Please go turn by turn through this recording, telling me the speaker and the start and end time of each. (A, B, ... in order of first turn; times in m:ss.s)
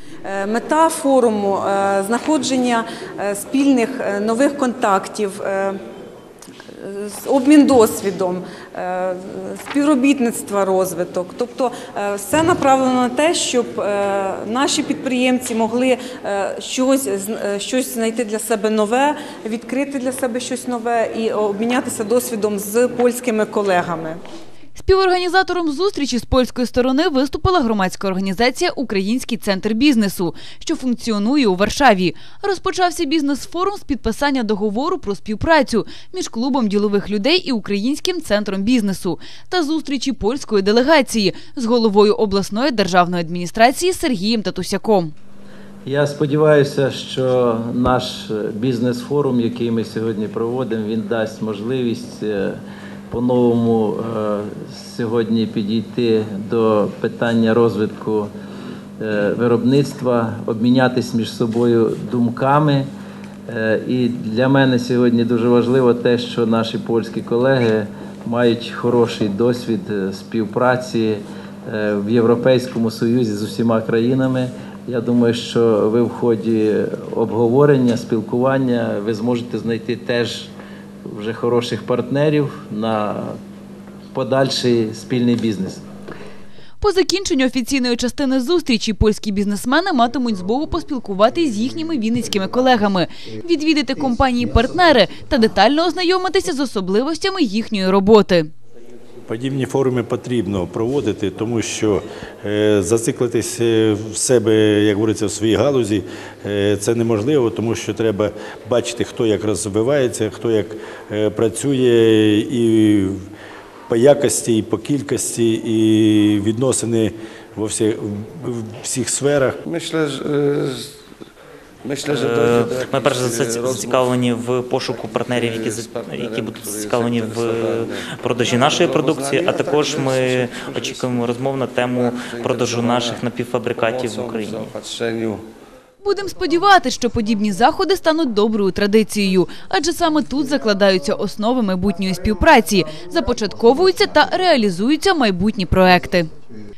0:00.2-0:05.8 A
0:06.7-0:24.2 A
0:24.8-0:45.1 B
0:45.9-0:52.6 C
0:53.1-0:58.3 C
0:59.0-1:02.9 C
1:03.5-1:20.5 C
1:21.1-1:23.4 C
1:24.1-1:25.8 C
1:26.8-1:38.5 B
1:39.3-1:53.2 D
1:53.9-1:59.6 D
1:59.7-2:00.9 E
2:01.8-2:04.3 E
2:02.1-2:14.7 F
2:04.9-2:15.4 E
2:16.0-2:26.3 B